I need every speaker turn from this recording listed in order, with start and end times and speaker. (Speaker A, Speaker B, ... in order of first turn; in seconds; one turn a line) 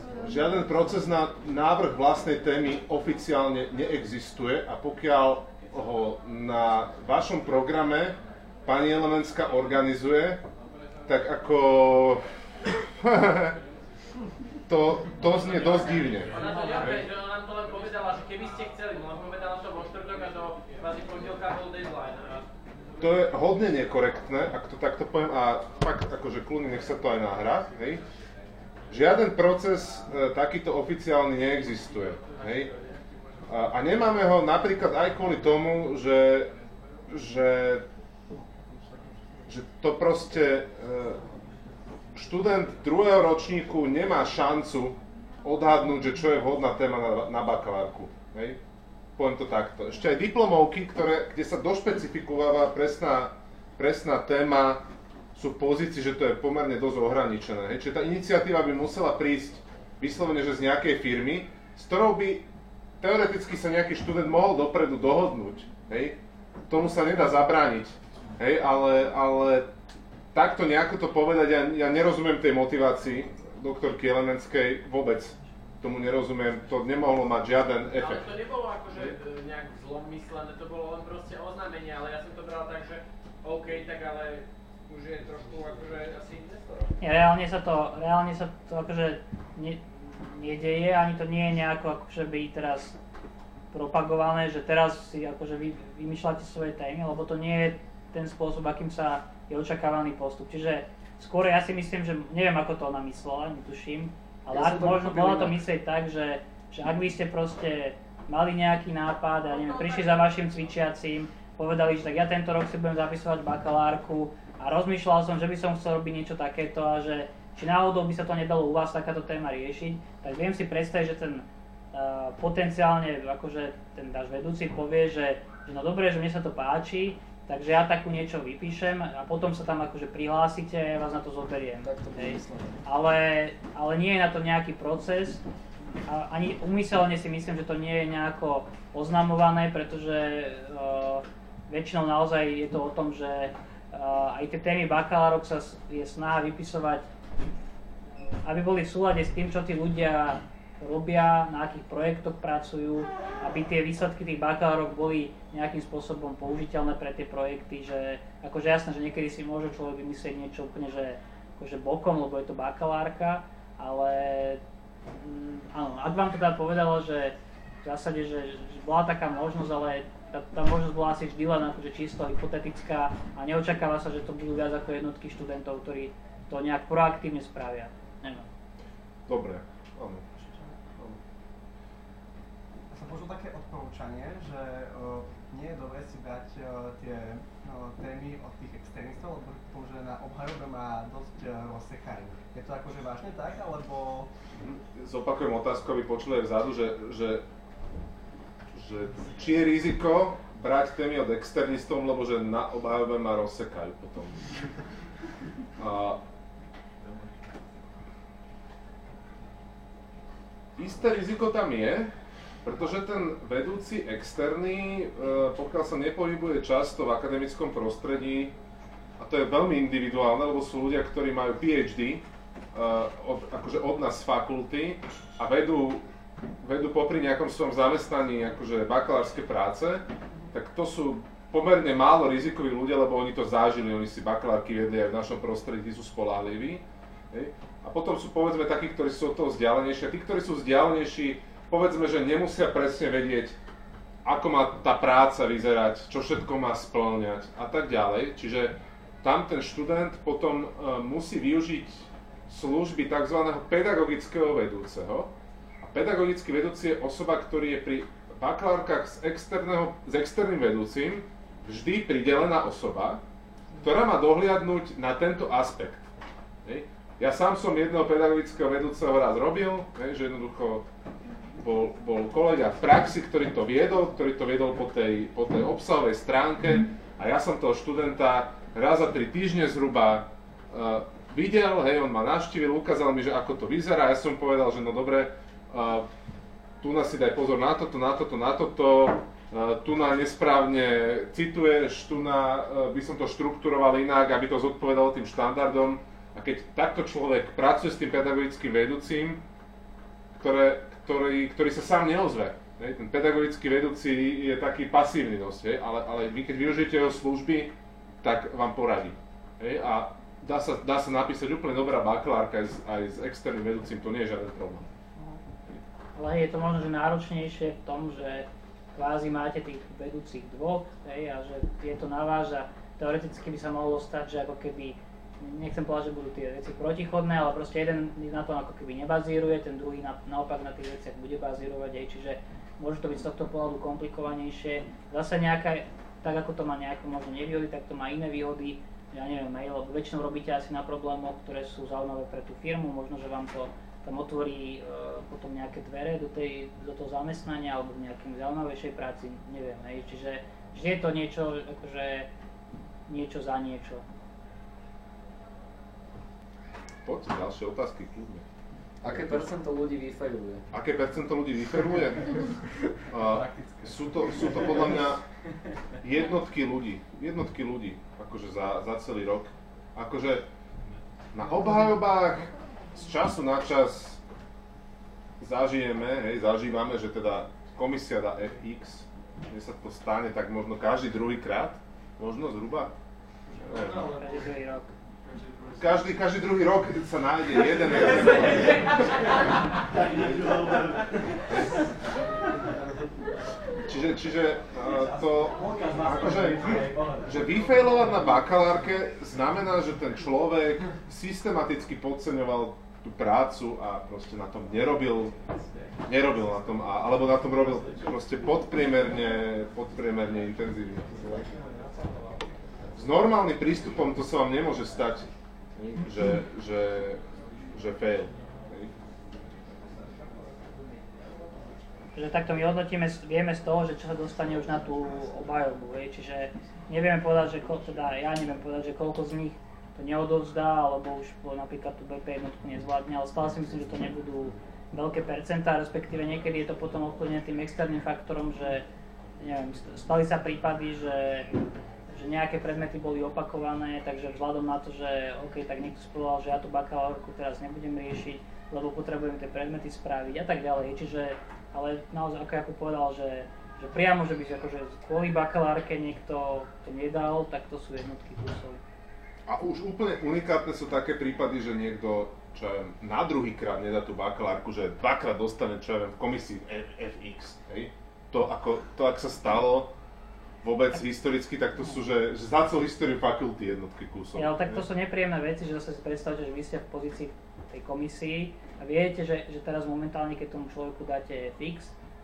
Speaker A: 0.2-10.4
Speaker A: 11.1-12.2
Speaker A: 12.9-13.6
Speaker A: 14.7-17.1
Speaker B: 15.2-22.4
Speaker A: 23.0-28.0
Speaker A: 28.9-32.7
Speaker B: 31.9-33.0
Speaker A: 33.5-36.5
Speaker A: 37.1-37.9
Speaker A: 39.5-41.2
Speaker A: 42.1-48.6
Speaker A: 49.2-54.8
Speaker A: 55.3-62.5
Speaker A: 63.0-69.7
Speaker A: 70.3-78.3
Speaker B: 77.9-86.9
Speaker C: 87.0-93.0
Speaker C: 93.7-135.4
Speaker D: 104.5-105.6
Speaker B: 109.5-110.6
Speaker D: 131.8-132.8
Speaker C: 136.1-147.1
Speaker C: 148.4-178.5
Speaker A: 179.3-180.2
Speaker E: 180.4-180.7
Speaker E: 182.9-194.3
Speaker A: 194.6-197.4
Speaker A: 198.7-204.5
Speaker A: 205.8-206.2
Speaker A: 210.8-212.1
Speaker A: 212.6-218.5
Speaker A: 219.2-226.1
Speaker A: 226.6-243.6
Speaker A: 244.2-263.2
Speaker A: 263.8-266.1
Speaker A: 266.6-270.9
Speaker A: 271.6-286.1
Speaker A: 286.8-299.4
Speaker A: 300.4-314.9
Speaker C: 316.1-352.3
Speaker C: 353.1-354.0
Speaker A: 357.0-358.4
Speaker D: 359.0-360.6
Speaker A: 360.7-362.4
Speaker A: 363.1-365.2
Speaker A: 366.0-370.4
Speaker A: 371.3-374.2
Speaker A: 375.4-382.9
Speaker C: 383.6-384.9
Speaker A: 383.6-384.1
Speaker A: 385.8-388.9
Speaker A: 390.2-390.5
Speaker A: 391.5-391.8
Speaker A: 393.9-405.3
Speaker E: 395.7-397.2
Speaker A: 406.1-411.5
Speaker A: 412.9-417.2
Speaker A: 417.7-418.9
Speaker C: 422.1-438.8
Speaker C: 439.4-441.5
Speaker C: 442.1-458.8
Speaker A: 459.4-469.9
Speaker A: 470.6-474.8
Speaker C: 474.3-481.9